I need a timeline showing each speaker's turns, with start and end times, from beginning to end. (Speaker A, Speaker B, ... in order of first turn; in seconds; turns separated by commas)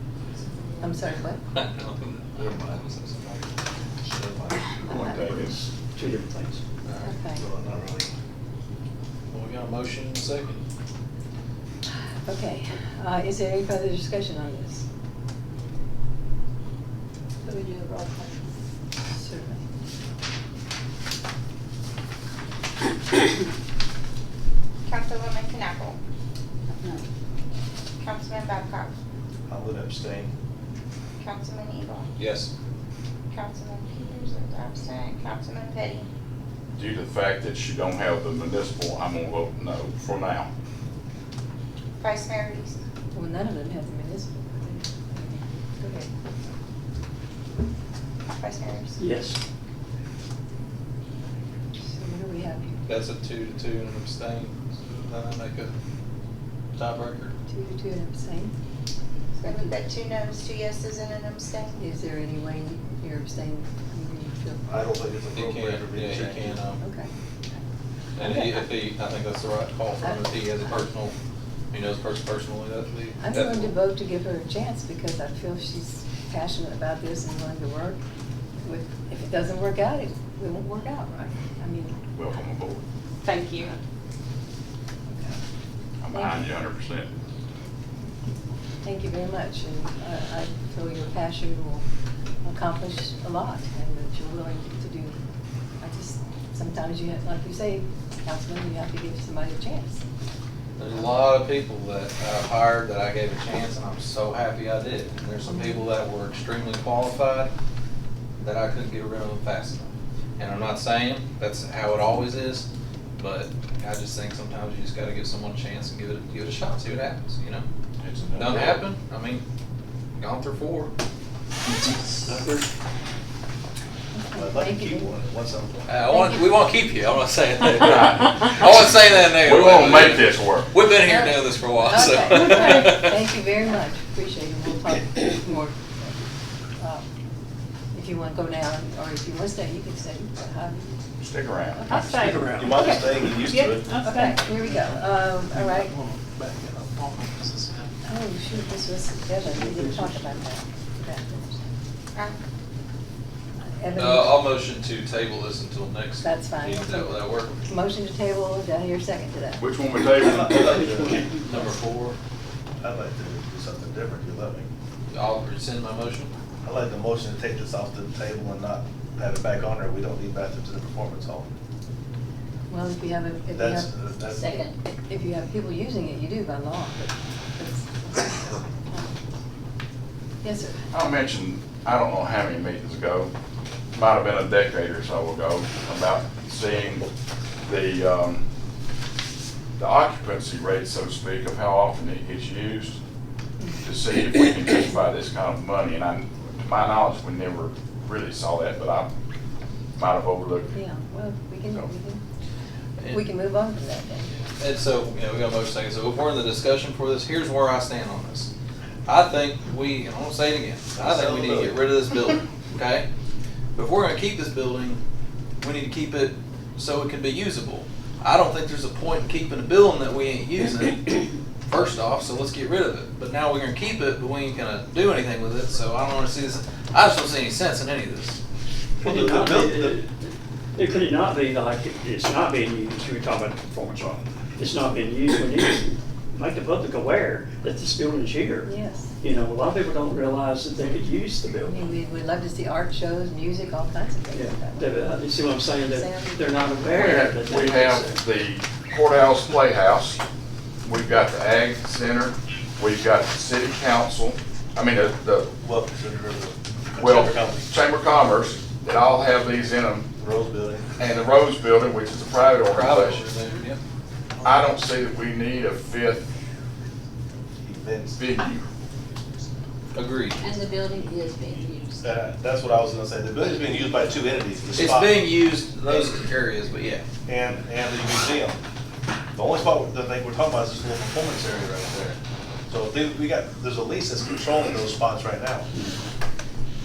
Speaker A: 0.8-1.4, Speaker B: 1.5-3.5, Speaker C: 4.0-5.1, Speaker A: 4.9-5.4, Speaker D: 4.9-6.6, Speaker B: 6.9-7.2, Speaker A: 7.0-7.4, Speaker C: 7.3-8.1, Speaker B: 9.3-10.6, Speaker A: 12.3-14.8, Speaker E: 17.4-18.4, Speaker A: 19.1-19.6, Speaker F: 24.9-26.0, Speaker E: 26.8-27.0, Speaker F: 28.0-28.9, Speaker C: 29.5-30.3, Speaker F: 31.2-32.1, Speaker B: 32.2-32.5, Speaker F: 33.3-36.1, Speaker G: 36.8-40.5, Speaker F: 42.0-42.8, Speaker A: 43.1-46.1, Speaker F: 48.4-49.0, Speaker D: 49.0-49.4, Speaker A: 51.9-52.8, Speaker B: 52.9-55.7, Speaker B: 56.8-57.4, Speaker A: 57.5-58.5, Speaker A: 59.4-59.8, Speaker F: 59.4-61.8, Speaker A: 61.8-64.6, Speaker C: 64.7-66.6, Speaker B: 65.3-66.8, Speaker A: 66.8-67.1, Speaker B: 68.2-71.1, Speaker A: 68.2-68.6, Speaker B: 71.7-73.7, Speaker A: 73.2-78.0, Speaker A: 78.6-82.0, Speaker G: 82.1-82.8, Speaker E: 83.2-83.7, Speaker A: 85.1-85.4, Speaker G: 86.0-87.1, Speaker A: 86.1-86.5, Speaker A: 88.8-91.8, Speaker A: 92.4-95.2, Speaker A: 95.8-100.0, Speaker B: 100.8-107.5, Speaker A: 105.5-105.8, Speaker B: 108.4-112.7, Speaker B: 113.2-117.7, Speaker G: 118.0-118.8, Speaker B: 118.4-119.4, Speaker B: 120.2-120.9, Speaker D: 122.1-122.6, Speaker A: 124.1-125.1, Speaker C: 124.4-125.9, Speaker B: 125.9-133.2, Speaker G: 127.8-128.4, Speaker G: 129.4-130.7, Speaker A: 131.1-136.2, Speaker A: 136.8-137.1, Speaker A: 137.9-141.0, Speaker G: 141.2-142.1, Speaker E: 141.9-144.4, Speaker D: 141.9-142.7, Speaker C: 142.5-143.9, Speaker A: 144.0-145.9, Speaker A: 148.1-151.6, Speaker D: 149.5-150.2, Speaker A: 153.8-154.4, Speaker B: 153.9-157.6, Speaker A: 156.2-159.7, Speaker G: 159.6-160.9, Speaker C: 160.3-161.3, Speaker B: 161.3-162.2, Speaker C: 162.8-164.7, Speaker B: 165.1-166.3, Speaker C: 166.6-171.5, Speaker A: 172.7-173.9, Speaker C: 173.5-174.5, Speaker E: 174.3-174.8, Speaker A: 174.5-179.1, Speaker A: 180.4-180.8, Speaker G: 180.9-183.3, Speaker G: 183.9-187.1, Speaker G: 187.7-188.4, Speaker G: 189.8-193.0, Speaker G: 193.8-199.1, Speaker G: 200.0-200.7, Speaker A: 200.7-202.2, Speaker B: 203.0-203.2, Speaker A: 203.1-204.3, Speaker B: 204.6-208.5, Speaker B: 209.1-213.1, Speaker C: 210.9-211.8, Speaker B: 213.8-215.0, Speaker B: 215.6-228.4, Speaker C: 229.0-230.0, Speaker D: 229.0-241.8, Speaker A: 238.7-239.1, Speaker A: 241.7-245.1, Speaker D: 244.3-248.2, Speaker A: 245.9-246.5, Speaker G: 246.9-250.2, Speaker G: 250.8-255.5, Speaker C: 255.6-257.7, Speaker G: 257.0-260.1, Speaker C: 260.2-260.9, Speaker G: 261.0-263.2, Speaker B: 262.7-263.8, Speaker G: 264.4-266.3, Speaker C: 267.6-268.2, Speaker G: 268.2-268.7, Speaker B: 269.9-270.4, Speaker E: 270.4-272.1, Speaker C: 272.0-275.2, Speaker B: 274.8-277.1, Speaker C: 277.3-278.6, Speaker C: 279.3-282.2, Speaker C: 282.7-285.7, Speaker D: 285.7-286.1